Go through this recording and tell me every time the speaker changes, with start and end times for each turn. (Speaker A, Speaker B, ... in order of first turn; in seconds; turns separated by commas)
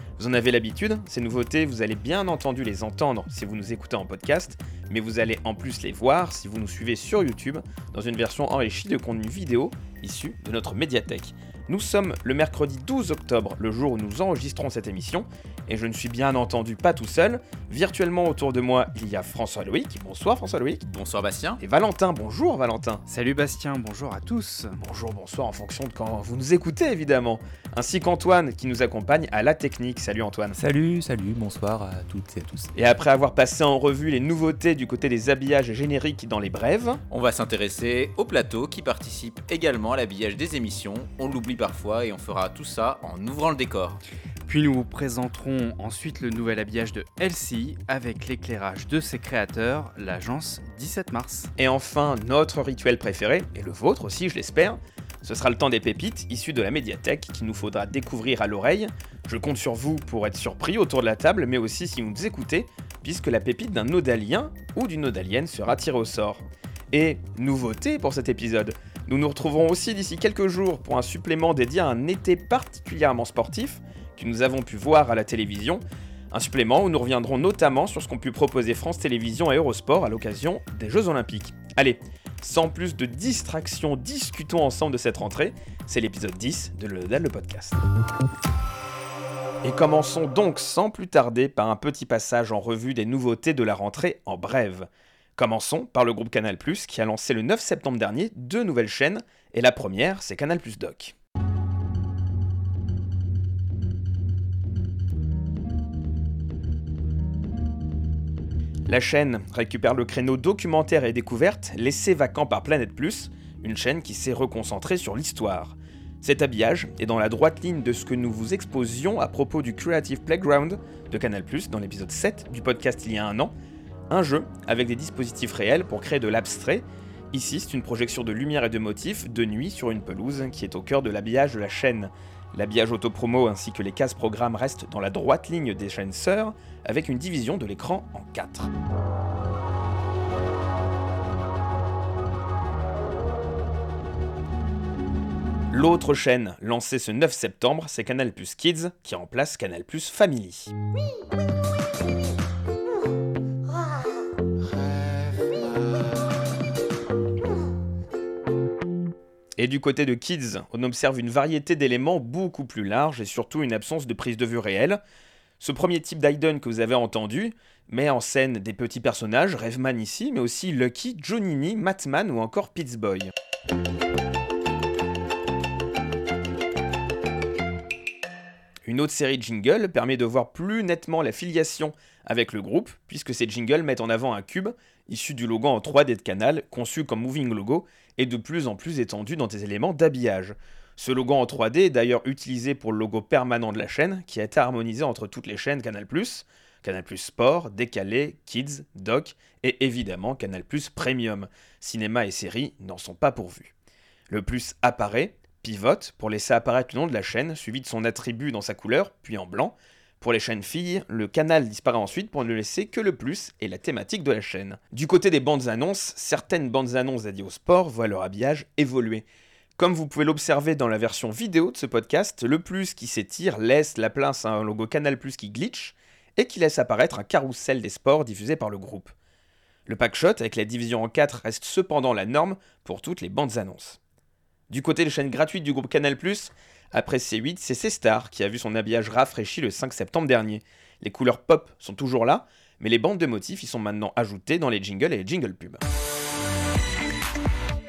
Speaker A: 0.2-20.8, Speaker B: 20.8-21.6, Speaker A: 21.6-23.0, Speaker C: 23.1-24.8, Speaker A: 24.8-30.6, Speaker D: 30.6-32.7, Speaker A: 32.8-37.0, Speaker B: 37.1-44.0, Speaker C: 44.5-51.5, Speaker A: 51.6-87.8, Speaker A: 89.6-101.2, Speaker A: 108.9-123.5, Speaker A: 124.1-138.7, Speaker A: 145.7-150.7, Speaker A: 159.6-165.0, Speaker A: 165.6-173.3, Speaker A: 178.8-203.7, Speaker A: 204.3-219.2, Speaker A: 219.8-229.1, Speaker A: 229.9-234.0, Speaker A: 234.7-245.8